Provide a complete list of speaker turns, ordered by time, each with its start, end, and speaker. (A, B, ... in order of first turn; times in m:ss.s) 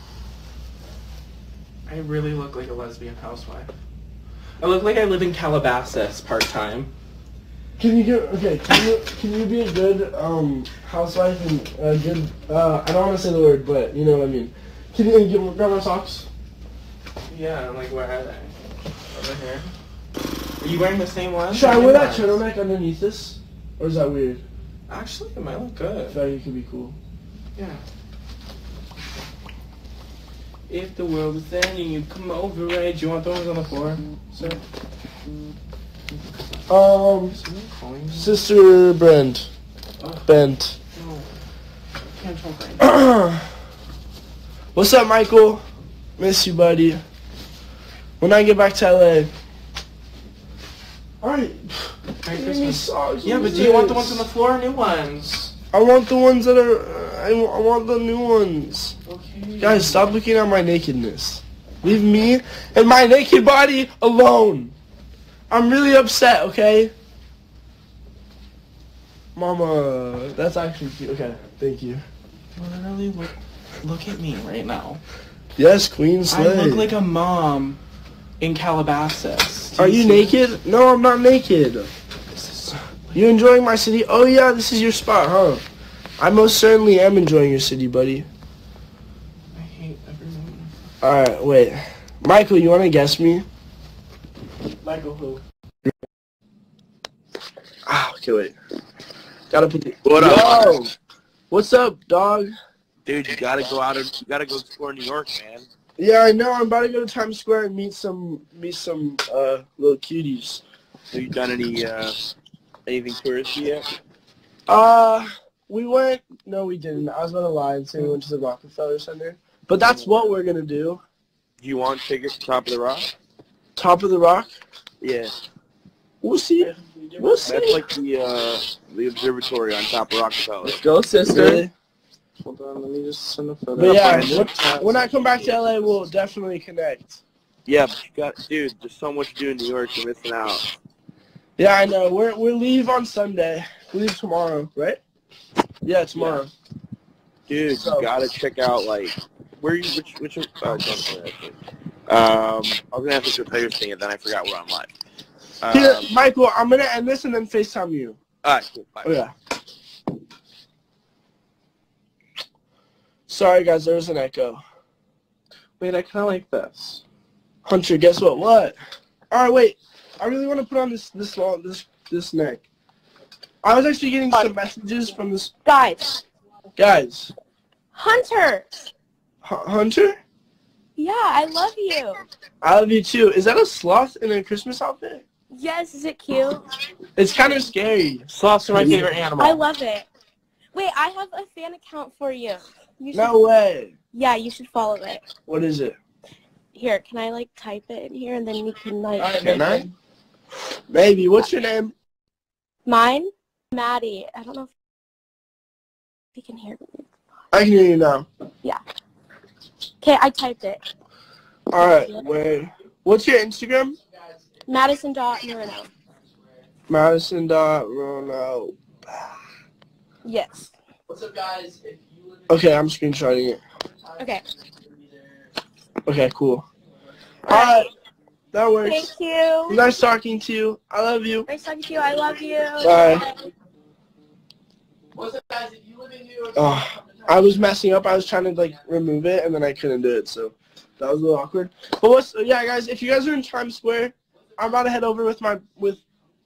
0:01.8-0:03.7 A
0:04.6-0:06.9 A
0:07.8-0:16.3 B
0:17.3-0:18.5 A
0:19.1-0:19.7 A
0:20.6-0:22.4 A
0:21.5-0:24.4 B
0:24.9-0:26.2 A
0:26.1-0:27.0 B
0:27.6-0:27.8 A
0:30.7-0:34.6 A
0:36.7-0:37.4 B
0:37.3-0:38.4 A
0:38.1-0:39.5 B
0:40.0-0:40.2 A
0:40.2-0:40.8 B
0:40.9-0:41.3 A
0:42.1-0:42.8 A
0:42.8-0:43.5 B
0:44.7-0:45.6 B
0:46.2-0:47.0 B
0:48.2-0:49.3 B
0:51.2-0:54.2 B
0:52.2-0:55.5 A
0:55.7-0:58.9 B
0:59.0-1:00.1 A
0:59.6-1:04.7 B
1:05.5-1:06.9 B
1:09.3-1:12.0 B
1:12.5-1:15.0 A
1:15.6-1:16.9 B
1:16.3-1:17.8 A
1:18.4-1:20.4 A
1:19.7-1:21.9 B
1:22.3-1:23.2 A
1:23.1-1:25.6 B
1:26.2-1:28.3 B
1:29.5-1:30.7 A
1:31.0-1:33.4 B
1:34.8-1:35.4 B
1:37.8-1:38.5 B
1:39.5-1:40.9 B
1:40.0-1:40.8 C
1:41.5-1:42.5 B
1:43.0-1:45.7 C
1:46.0-1:50.6 B
1:51.1-1:52.2 C
1:52.8-1:53.8 C
1:54.7-2:01.0 B
2:01.6-2:03.1 C
2:03.8-2:04.6 B
2:05.0-2:05.3 C
2:06.2-2:07.8 B
2:06.6-2:07.7 A
2:07.4-2:10.8 C
2:10.6-2:11.6 A
2:11.3-2:11.7 B
2:12.4-2:15.9 A
2:13.8-2:14.5 C
2:13.8-2:17.2 B
2:17.6-2:20.6 C
2:21.6-2:25.0 B
2:25.8-2:26.5 B
2:26.1-2:26.4 C
2:27.5-2:31.6 C
2:27.7-2:28.1 B
2:32.1-2:34.9 C
2:35.6-2:36.1 C
2:35.7-2:38.2 B
2:38.4-2:39.1 C
2:39.0-2:39.3 B
2:43.3-2:44.6 B
2:45.8-2:47.0 A
2:47.6-2:48.8 B
2:49.3-2:52.6 B
2:53.6-2:55.5 B
2:55.6-2:56.2 D
2:56.8-2:57.3 B
2:57.9-2:58.8 D
2:59.4-3:00.2 B
3:01.0-3:02.2 D
3:02.6-3:05.2 B
3:05.5-3:06.7 D
3:07.2-3:09.0 B
3:08.3-3:09.6 A
3:09.4-3:10.1 D
3:10.7-3:13.3 D
3:13.1-3:13.9 B
3:14.1-3:15.2 D
3:15.4-3:16.0 B
3:16.7-3:19.3 D
3:19.2-3:19.9 A
3:19.4-3:19.8 B
3:20.9-3:21.9 B
3:22.8-3:24.7 D
3:26.3-3:27.1 D
3:27.5-3:28.3 B
3:30.0-3:30.8 D
3:31.7-3:34.0 B
3:31.8-3:32.2 D
3:34.6-3:35.9 D
3:36.9-3:39.1 B
3:40.2-3:40.7 D
3:41.1-3:42.0 A
3:42.5-3:43.6 B
3:46.0-3:46.6 B
3:47.4-3:47.9 B
3:47.5-3:47.8 D
3:48.5-3:49.1 B
3:48.8-3:49.8 D
3:49.7-3:51.5 B
3:51.5-3:53.3 D
3:52.8-3:53.2 B
3:56.5-4:06.0 B